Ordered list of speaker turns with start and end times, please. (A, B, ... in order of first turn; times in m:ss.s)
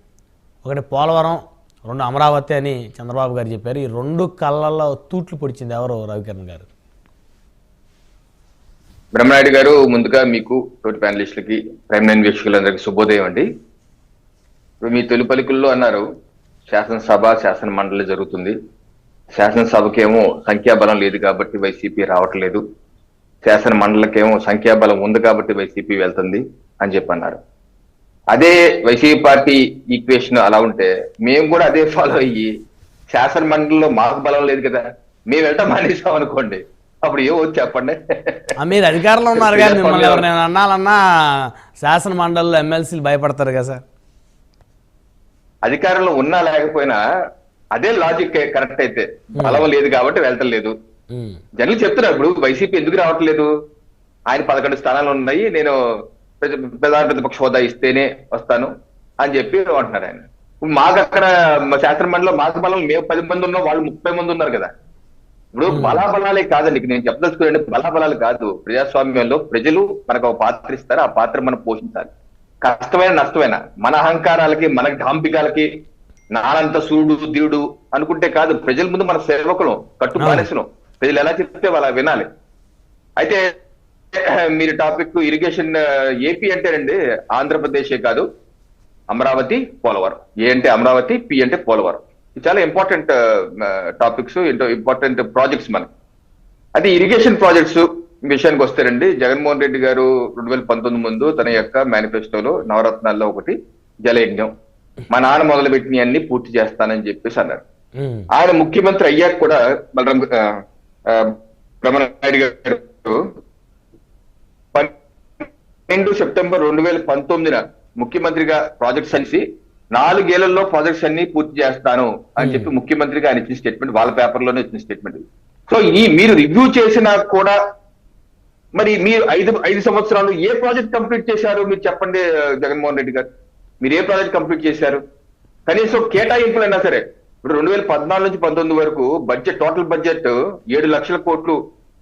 0:00.6-0:06.7 A
0:09.2-0:13.5 B
0:14.8-0:16.1 B
0:16.7-0:18.6 B
0:19.4-0:22.6 B
0:23.4-0:27.4 B
0:28.3-0:32.5 B
0:33.1-0:38.4 B
0:38.6-0:43.8 A
0:39.4-0:40.2 B
0:45.7-0:47.0 B
0:47.8-0:50.7 B
0:49.4-0:49.6 A
0:51.1-0:51.4 A
0:51.6-0:53.5 B
0:54.3-0:55.8 B
0:56.4-0:58.7 B
0:59.2-1:04.7 B
1:05.6-1:12.1 B
1:05.7-1:06.0 A
1:12.6-1:15.7 B
1:16.3-1:22.3 B
1:20.2-1:20.5 A
1:24.2-1:28.2 B
1:29.1-1:35.9 B
1:36.8-1:43.6 B
1:44.1-1:44.5 B
1:45.1-1:47.6 B
1:48.0-1:48.3 A
1:48.4-1:50.5 B
1:51.1-1:53.2 B
1:54.7-1:59.4 B
1:59.9-2:07.6 B
2:02.4-2:02.7 A
2:08.8-2:13.2 B
2:13.8-2:15.0 B
2:15.7-2:21.6 B